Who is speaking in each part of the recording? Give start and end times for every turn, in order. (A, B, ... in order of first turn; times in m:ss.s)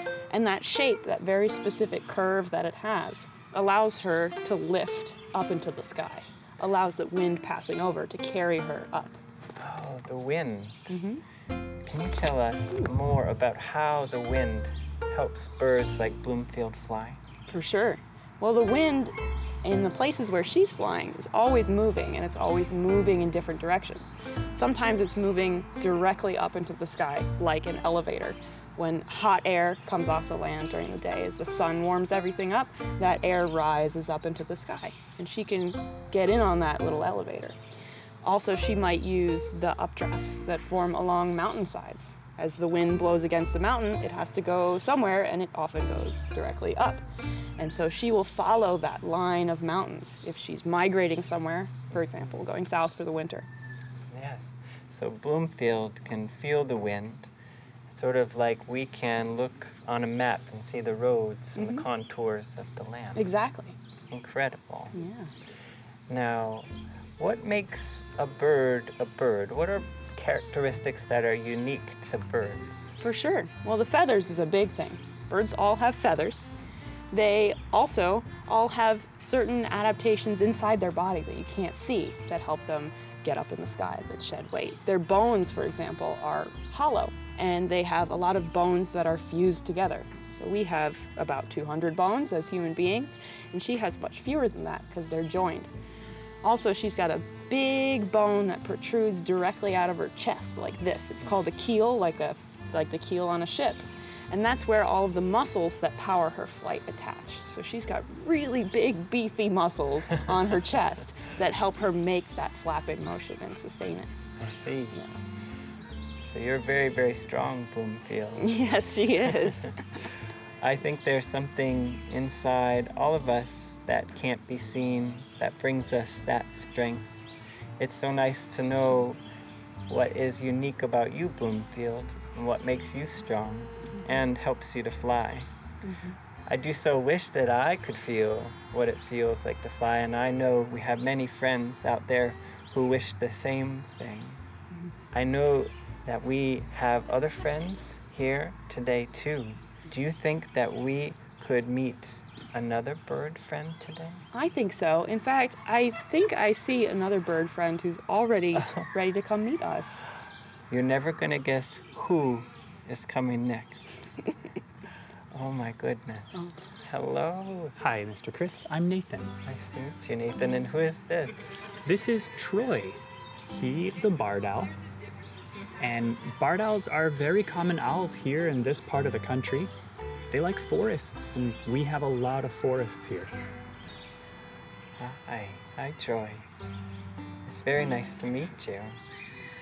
0:00.3-0:09.2 A
0:09.6-0:11.0 B
0:10.9-0:11.2 A
0:11.8-0:17.2 B
0:17.5-0:37.6 A
0:38.2-0:47.0 A
0:47.6-0:53.5 A
0:54.1-0:57.3 B
0:57.9-1:03.3 B
1:01.6-1:01.9 A
1:03.2-1:03.8 A
1:04.1-1:05.0 B
1:04.9-1:05.3 A
1:06.1-1:13.0 B
1:13.0-1:16.5 A
1:17.1-1:35.7 A
1:36.4-1:54.2 A
1:54.4-1:55.0 B
1:56.2-1:58.6 B
1:58.4-1:59.8 A
2:00.6-2:07.2 B
2:07.8-2:09.2 B
2:09.9-2:15.5 B
2:15.8-2:16.2 A
2:16.5-2:24.4 B
2:25.1-2:34.2 B
2:34.3-2:40.0 A
2:40.7-2:44.2 B
2:45.3-2:47.8 B
2:47.8-2:49.3 C
2:49.4-2:51.7 B
2:51.8-2:54.7 C
2:55.8-2:59.7 C
3:00.3-3:03.3 C
3:05.0-3:06.5 B
3:07.4-3:09.0 B